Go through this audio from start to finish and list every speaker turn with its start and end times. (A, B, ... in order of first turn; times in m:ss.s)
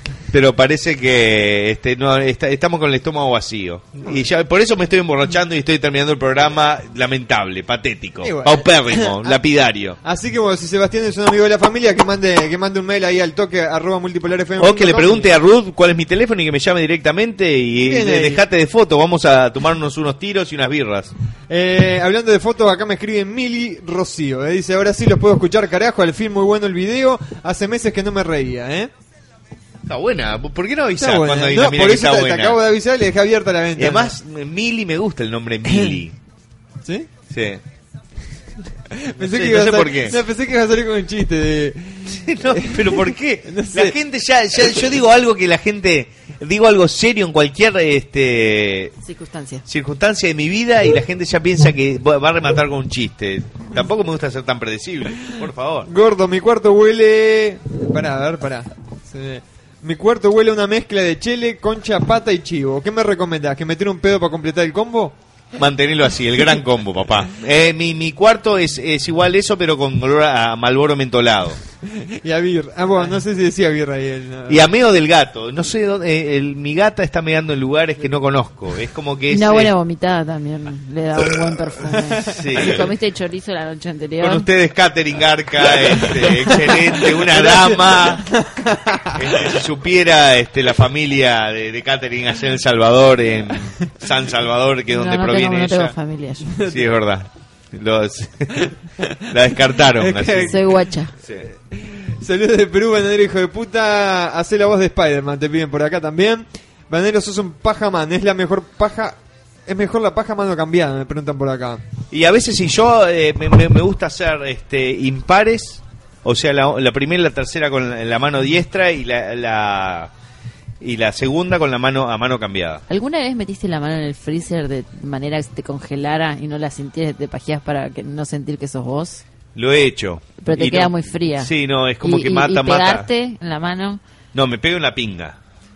0:00.3-0:10.0 A
0:08.2-0:09.4 B
0:10.0-0:15.3 B
0:14.6-0:21.1 A
0:17.8-0:18.4 B
0:21.5-0:28.9 B
0:29.9-0:32.6 A
0:31.0-0:34.1 B
0:33.8-0:36.2 A
0:35.7-0:36.0 B
0:36.8-0:37.1 B
0:37.3-0:37.6 A
0:38.9-0:44.0 B
0:39.2-0:40.2 A
0:42.1-0:49.0 A
0:49.0-0:49.6 C
0:49.7-0:55.9 A
0:55.9-1:05.2 B
1:05.6-1:11.6 A
1:11.8-1:14.7 B
1:14.5-1:19.7 A
1:19.3-1:24.4 C
1:22.2-1:22.9 A
1:24.2-1:28.3 A
1:26.2-1:29.5 B
1:29.1-1:35.9 A
1:34.9-1:36.6 C
1:36.5-1:37.0 B
1:36.6-1:40.6 A
1:39.9-1:40.7 B
1:40.4-1:41.1 C
1:41.7-1:51.8 B
1:52.1-2:00.1 A
2:00.8-2:02.8 A
2:02.9-2:09.2 C
2:09.6-2:13.1 A
2:10.4-2:11.5 C
2:12.0-2:14.0 C
2:14.3-2:15.4 A